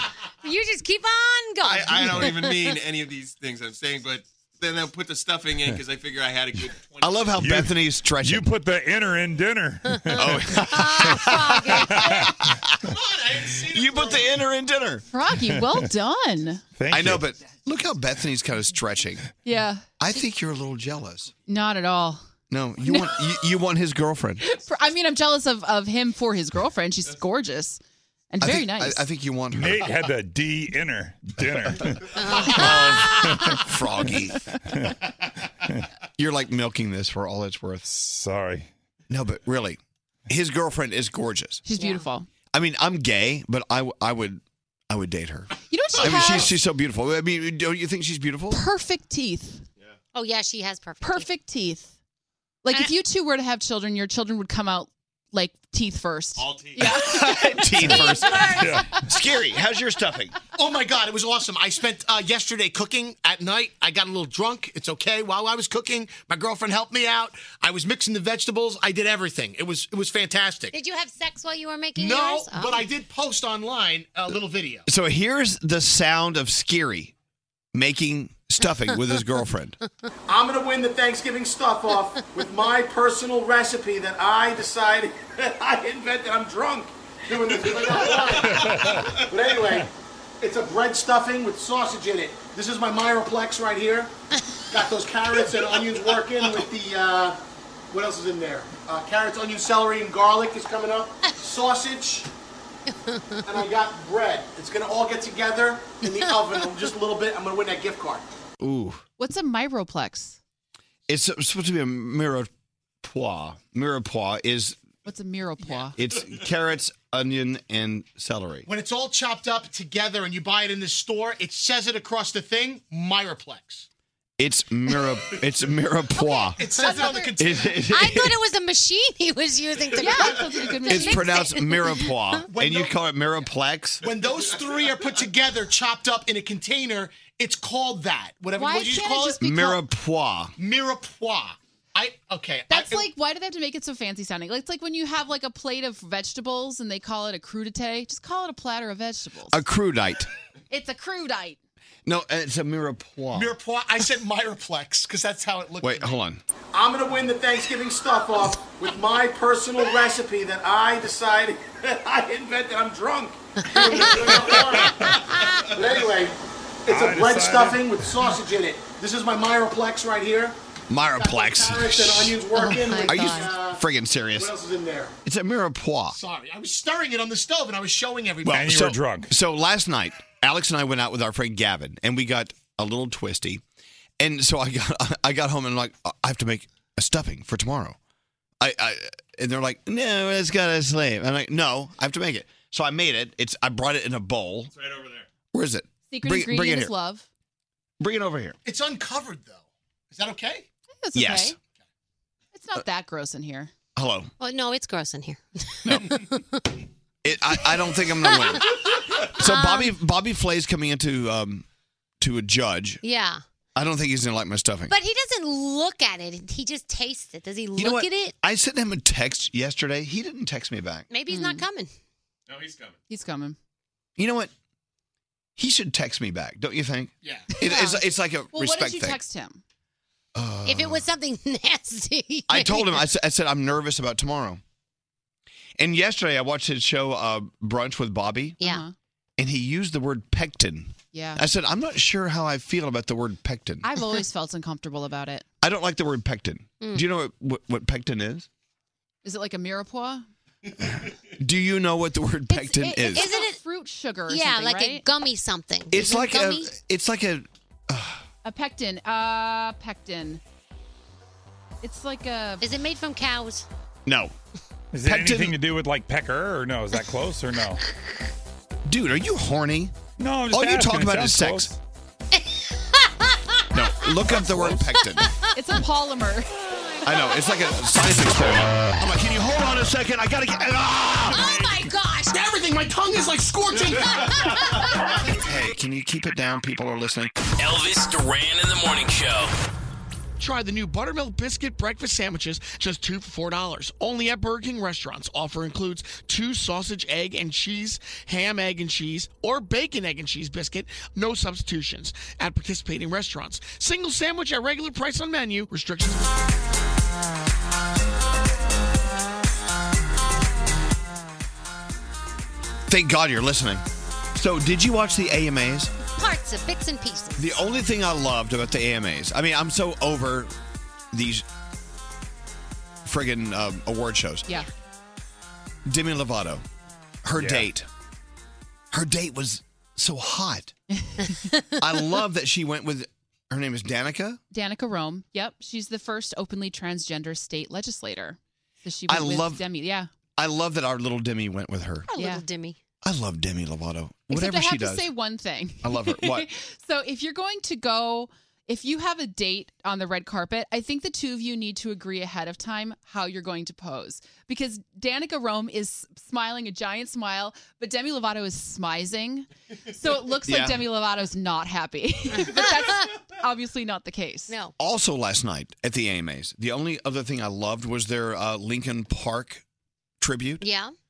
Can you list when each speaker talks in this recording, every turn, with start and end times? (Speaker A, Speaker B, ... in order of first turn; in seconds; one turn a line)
Speaker A: 0.4-2.8
Speaker B: 1.6-7.4
Speaker C: 7.0-8.5
Speaker D: 7.3-10.6
Speaker A: 9.9-12.2
Speaker C: 10.2-12.7
Speaker D: 11.9-12.3
Speaker B: 12.9-14.3
Speaker C: 13.4-15.0
Speaker E: 15.1-16.6
Speaker D: 16.8-17.2
Speaker C: 16.9-19.2
Speaker E: 19.4-19.8
Speaker C: 20.0-21.3
Speaker E: 21.5-22.2
Speaker C: 22.5-24.4
Speaker E: 22.8-23.4
Speaker E: 24.4-29.0
Speaker C: 28.4-29.9
Speaker D: 29.5-32.1
Speaker A: 32.2-33.0
Speaker C: 32.5-34.5
Speaker D: 33.2-33.6
Speaker C: 36.2-37.9
Speaker D: 37.9-38.7
Speaker C: 39.1-41.6
Speaker E: 41.6-42.3
Speaker A: 41.8-42.0
Speaker C: 42.5-48.6
Speaker E: 45.7-46.5
Speaker E: 48.5-49.6
Speaker A: 50.1-51.3
Speaker E: 51.0-51.9
Speaker E: 52.6-58.9
Speaker B: 56.4-57.0
Speaker C: 56.8-60.4
Speaker A: 57.7-58.8
Speaker D: 58.5-59.0
Speaker F: 60.6-70.7
Speaker A: 70.7-72.9
Speaker F: 72.0-74.8
Speaker C: 74.8-77.1
Speaker C: 77.7-79.8
Speaker F: 80.3-89.9
Speaker B: 87.9-89.0
Speaker D: 88.4-89.1
Speaker F: 90.4-94.1
Speaker F: 94.7-97.4
Speaker F: 97.9-102.3
Speaker A: 102.9-103.6
Speaker F: 103.5-108.2
Speaker A: 106.0-106.8
Speaker C: 108.6-109.0
Speaker E: 109.2-110.4
Speaker C: 111.1-112.5
Speaker C: 113.0-114.8
Speaker E: 115.0-116.0
Speaker C: 116.0-118.7
Speaker F: 118.7-123.9
Speaker C: 124.4-126.6
Speaker F: 126.5-127.7
Speaker A: 126.8-127.3
Speaker E: 126.8-127.2
Speaker C: 127.4-128.3
Speaker A: 127.9-132.4
Speaker E: 130.0-131.4
Speaker C: 130.8-134.0
Speaker F: 132.5-132.9
Speaker F: 134.0-139.4
Speaker E: 138.6-139.8
Speaker C: 139.4-140.5
Speaker F: 140.6-143.1
Speaker E: 142.7-149.6
Speaker C: 149.5-150.3
Speaker E: 150.7-151.6
Speaker C: 152.1-153.5
Speaker F: 153.3-156.2
Speaker C: 155.8-156.4
Speaker F: 156.7-165.0
Speaker A: 163.6-164.5
Speaker A: 165.0-165.6
Speaker F: 165.7-170.6
Speaker D: 166.9-168.2
Speaker C: 170.9-174.5
Speaker F: 171.1-173.8
Speaker A: 172.6-173.5
Speaker F: 174.3-175.1
Speaker C: 175.2-176.2
Speaker F: 176.1-178.9
Speaker C: 178.4-183.6
Speaker D: 178.5-179.3
Speaker C: 184.2-187.9
Speaker C: 188.6-194.7
Speaker B: 194.8-195.1
Speaker C: 195.5-196.9
Speaker E: 196.1-197.2
Speaker C: 198.0-198.6
Speaker F: 198.6-200.7
Speaker E: 201.0-201.6
Speaker C: 201.1-201.5
Speaker E: 202.5-203.7
Speaker C: 203.9-204.3
Speaker A: 204.4-206.7
Speaker C: 205.8-206.2
Speaker C: 207.2-211.7
Speaker A: 208.2-208.9
Speaker A: 209.4-209.9
Speaker C: 212.2-213.0
Speaker A: 213.0-213.4
Speaker C: 213.7-214.9
Speaker A: 214.9-218.3
Speaker C: 217.8-221.1
Speaker A: 221.1-221.9
Speaker E: 221.3-221.6
Speaker B: 222.5-222.9
Speaker E: 223.1-223.6
Speaker C: 224.2-224.5
Speaker C: 225.6-229.2
Speaker E: 227.5-229.6
Speaker C: 230.3-231.0
Speaker A: 230.6-233.1
Speaker C: 232.5-234.6
Speaker C: 235.8-238.6
Speaker E: 238.6-238.9
Speaker C: 239.4-243.9
Speaker E: 241.1-241.4
Speaker E: 243.8-245.4
Speaker C: 245.6-248.5
Speaker E: 249.2-250.2
Speaker C: 250.8-253.3
Speaker E: 252.5-255.1
Speaker A: 253.1-253.6
Speaker A: 254.3-256.7
Speaker C: 255.9-258.2
Speaker E: 258.4-260.4
Speaker E: 261.8-262.6
Speaker A: 262.6-263.6
Speaker C: 264.1-264.3
Speaker D: 264.9-267.8
Speaker C: 265.0-265.6
Speaker C: 268.9-269.9
Speaker D: 270.2-271.8
Speaker C: 270.5-271.7
Speaker A: 272.3-275.5
Speaker C: 273.7-275.3
Speaker E: 275.5-276.5
Speaker A: 276.6-278.2
Speaker C: 277.0-281.4
Speaker A: 281.3-282.4
Speaker D: 281.3-281.8
Speaker G: 282.3-284.3
Speaker A: 284.0-285.2
Speaker C: 285.2-287.3
Speaker H: 287.6-289.5
Speaker G: 290.4-306.3
Speaker C: 312.9-313.8
Speaker C: 314.3-315.9
Speaker A: 316.1-317.5
Speaker C: 317.4-320.5
Speaker C: 321.1-321.4
Speaker C: 323.0-324.5
Speaker C: 325.9-326.6
Speaker C: 327.2-327.9
Speaker D: 327.4-327.7
Speaker C: 328.9-330.7
Speaker E: 331.0-331.5
Speaker A: 331.4-331.8
Speaker C: 331.8-334.4
Speaker E: 334.5-340.1
Speaker C: 339.1-339.6
Speaker C: 340.4-342.1
Speaker A: 342.1-342.8
Speaker E: 342.1-342.4
Speaker C: 343.0-345.1
Speaker E: 344.3-364.5
Speaker C: 345.8-346.5
Speaker C: 360.5-360.8
Speaker A: 362.5-363.0
Speaker A: 364.5-364.7
Speaker C: 364.8-369.6
Speaker C: 370.2-370.6
Speaker A: 370.6-370.9